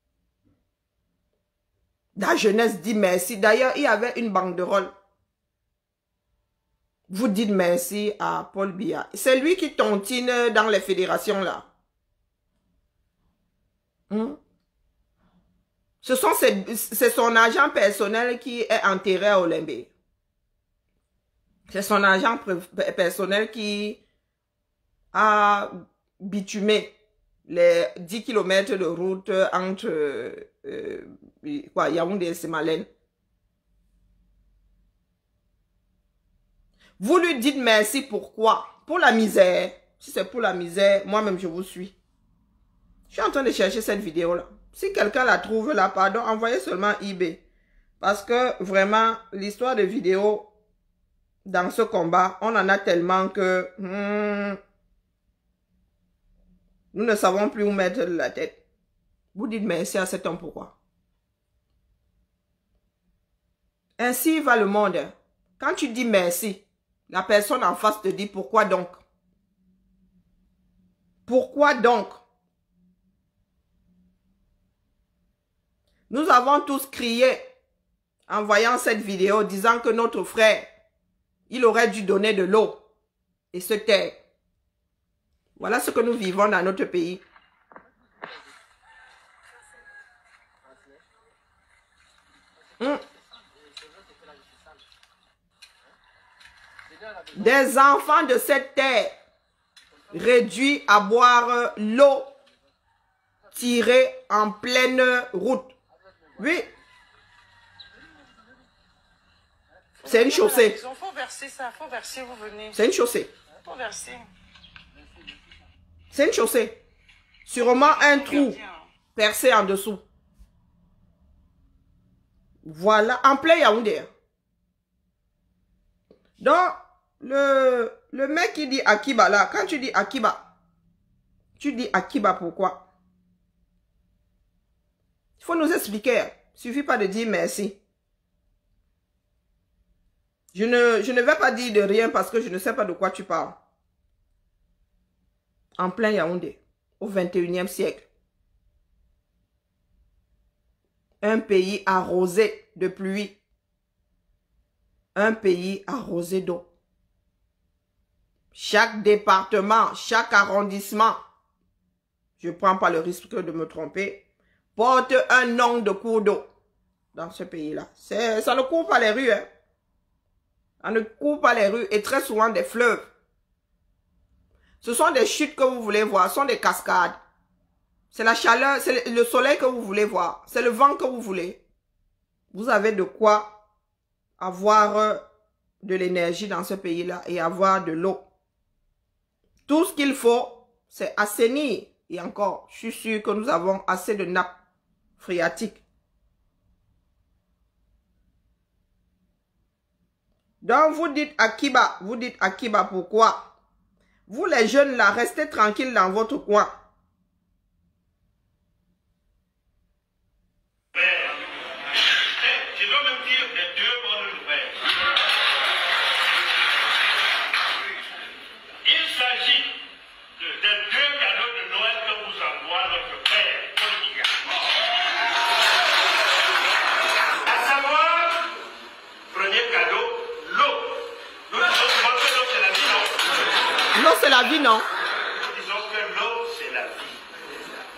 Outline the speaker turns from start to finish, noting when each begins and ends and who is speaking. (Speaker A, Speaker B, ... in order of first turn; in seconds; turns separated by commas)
Speaker A: 2.2-4.9, Speaker A: 7.1-11.7, Speaker A: 14.1-14.4, Speaker A: 16.0-19.9, Speaker A: 21.7-24.0, Speaker A: 25.1-26.9, Speaker A: 27.5-32.9, Speaker A: 37.0-42.0, Speaker A: 43.1-47.4, Speaker A: 48.0-50.5, Speaker A: 51.5-54.6, Speaker A: 56.9-58.6, Speaker A: 59.3-60.7, Speaker A: 64.0-69.0, Speaker A: 71.3-72.2, Speaker A: 76.1-77.5, Speaker A: 78.3-80.7, Speaker A: 81.5-82.8, Speaker A: 83.5-84.2, Speaker A: 85.6-87.2, Speaker A: 97.3-99.2, Speaker A: 100.1-102.3, Speaker A: 103.5-105.7, Speaker A: 106.4-106.7, Speaker B: 110.0-112.8, Speaker A: 110.1-110.8, Speaker A: 112.7-113.3, Speaker B: 113.6-114.3, Speaker A: 116.1-116.8, Speaker A: 117.5-118.6, Speaker B: 117.6-118.9, Speaker A: 119.2-120.0, Speaker A: 122.6-124.1, Speaker A: 126.4-130.5, Speaker A: 131.6-132.8, Speaker A: 135.4-137.8, Speaker A: 140.5-143.6, Speaker A: 145.8-148.1, Speaker A: 151.2-153.4, Speaker A: 155.2-156.7, Speaker A: 158.5-161.2, Speaker A: 162.4-164.2, Speaker A: 164.8-166.5, Speaker A: 167.1-169.5, Speaker A: 170.8-173.1, Speaker A: 174.8-177.2, Speaker A: 178.1-181.6, Speaker A: 182.5-183.6, Speaker A: 184.4-185.2, Speaker A: 185.8-188.2, Speaker A: 189.7-194.5, Speaker A: 195.2-195.8, Speaker A: 200.6-203.5, Speaker A: 204.3-206.7, Speaker C: 210.9-214.9, Speaker C: 218.8-219.8, Speaker C: 220.4-224.4, Speaker C: 227.4-228.5, Speaker C: 229.3-233.6, Speaker A: 233.9-234.8, Speaker C: 235.3-237.6